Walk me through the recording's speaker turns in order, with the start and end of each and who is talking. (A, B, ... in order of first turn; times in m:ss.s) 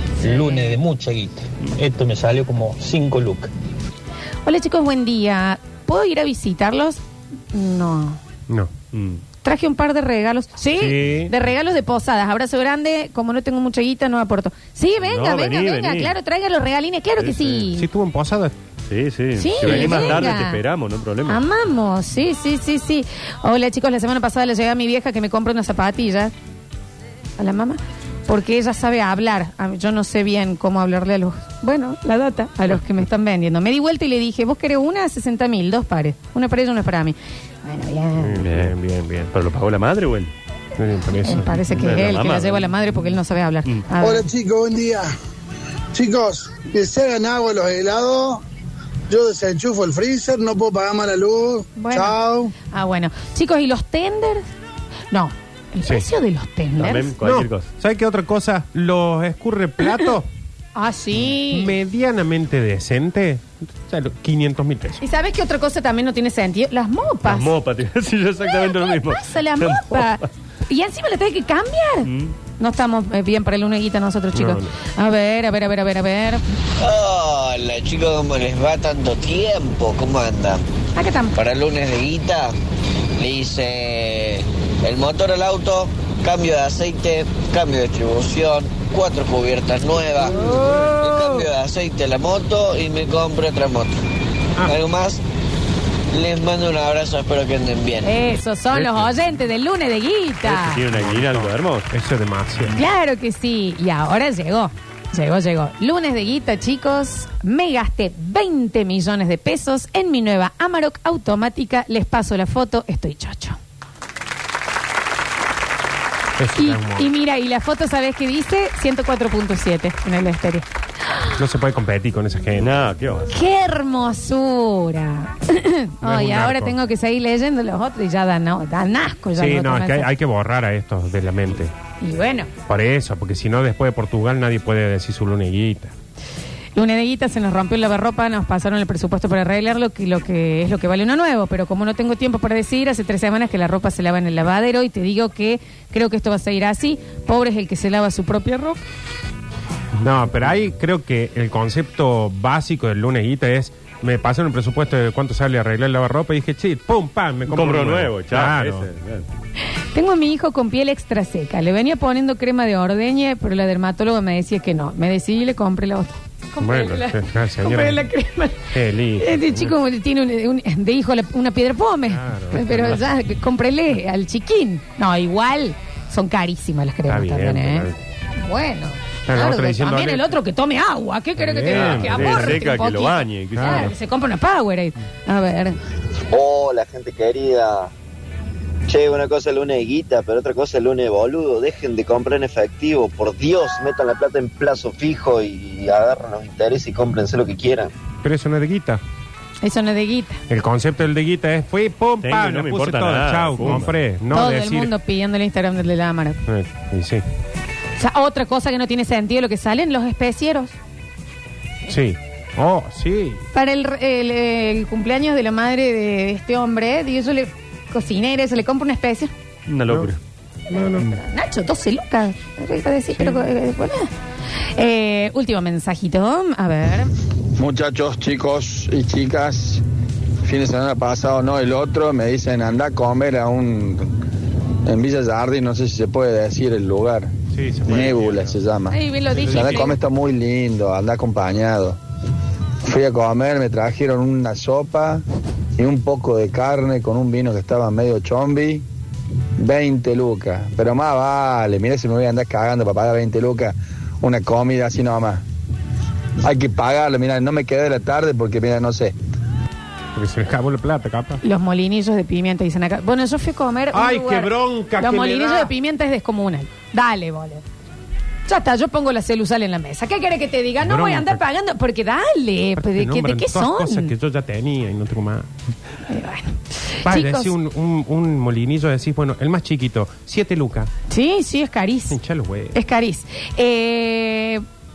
0:00.2-0:03.5 A
0:00.3-0:00.6 B
0:04.4-0:07.0 B
0:07.5-0:08.2 B
0:08.9-0:09.2 C
0:09.4-0:17.9 B
0:10.8-0:11.3 C
0:15.0-0:16.1 C
0:17.2-0:17.6 C
0:17.7-0:18.6 D
0:18.9-0:21.4 C
0:19.4-0:20.6 B
0:19.6-0:20.3 D
0:21.3-0:26.3 B
0:27.4-0:38.4 B
0:38.2-0:39.3 D
0:38.4-0:38.7 C
0:39.3-0:40.3 C
0:40.8-0:41.8 D
0:41.2-0:44.3 B
0:41.7-0:42.9 C
0:44.0-0:45.1 E
0:45.9-0:48.4 E
0:49.1-0:52.5 E
0:51.8-0:52.2 B
0:52.7-0:54.5 B
0:55.1-0:57.1 B
0:56.8-0:57.7 C
0:57.2-1:00.3 D
1:00.8-1:01.7 B
1:01.4-1:05.0 D
1:05.0-1:07.5 B
1:07.2-1:10.2 C
1:08.4-1:12.1 B
1:12.0-1:12.3 C
1:12.6-1:16.4 B
1:14.3-1:14.7 D
1:16.8-1:20.6 F
1:21.0-1:21.3 B
1:21.3-1:22.5 F
1:23.2-1:33.9 F
1:30.2-1:31.5 B
1:34.6-1:35.2 F
1:36.1-1:38.1 F
1:38.0-1:40.8 B
1:38.7-1:39.0 D
1:40.4-1:41.9 C
1:40.8-1:42.8 D
1:42.7-1:53.6 B
1:56.4-1:57.1 D
1:56.6-2:00.7 B
2:01.4-2:03.0 D
2:02.6-2:03.3 C
2:03.3-2:10.1 B
2:06.0-2:06.8 D
2:09.3-2:11.7 D
2:12.0-2:12.5 B
2:12.7-2:15.9 D
2:16.7-2:28.8 B
2:30.0-2:38.9 D
2:37.5-2:39.2 C
2:39.9-2:48.7 B
2:46.6-2:48.1 D
2:48.7-2:49.7 D
2:49.2-3:05.8 B
2:52.0-2:53.0 D
2:57.1-2:58.0 D
2:59.2-3:00.3 D
3:01.4-3:02.6 D
3:01.7-3:03.9 C
3:03.5-3:03.9 D
3:06.3-3:07.9 F
3:08.9-3:17.9 F
3:18.2-3:19.0 D
3:19.6-3:20.4 B
3:20.5-3:24.9 D
3:22.2-3:23.9 C
3:24.3-3:26.4 B
3:26.5-3:27.2 D
3:28.0-3:30.8 B
3:31.9-3:33.4 D
3:33.5-3:39.3 B
3:39.7-3:40.2 C
3:40.7-3:47.1 B
3:40.7-3:41.1 D
3:43.2-3:43.4 D
3:47.6-3:49.8 G
3:50.4-3:54.1 G
3:54.8-3:57.3 G
3:57.5-3:58.6 D
3:57.9-4:02.0 G
3:58.9-4:00.0 B
3:59.3-4:00.0 D
4:02.8-4:05.2 G
4:05.8-4:08.8 G
4:09.6-4:15.4 G
4:16.4-4:19.1 G
4:20.1-4:21.4 D
4:21.4-4:27.6 B
4:23.9-4:25.7 D
4:28.5-4:34.1 B
4:30.8-4:31.4 D
4:32.8-4:35.5 D
4:36.1-4:37.5 B
4:37.0-4:40.9 D
4:41.1-4:42.2 B
4:42.1-4:42.8 D
4:42.7-4:44.6 B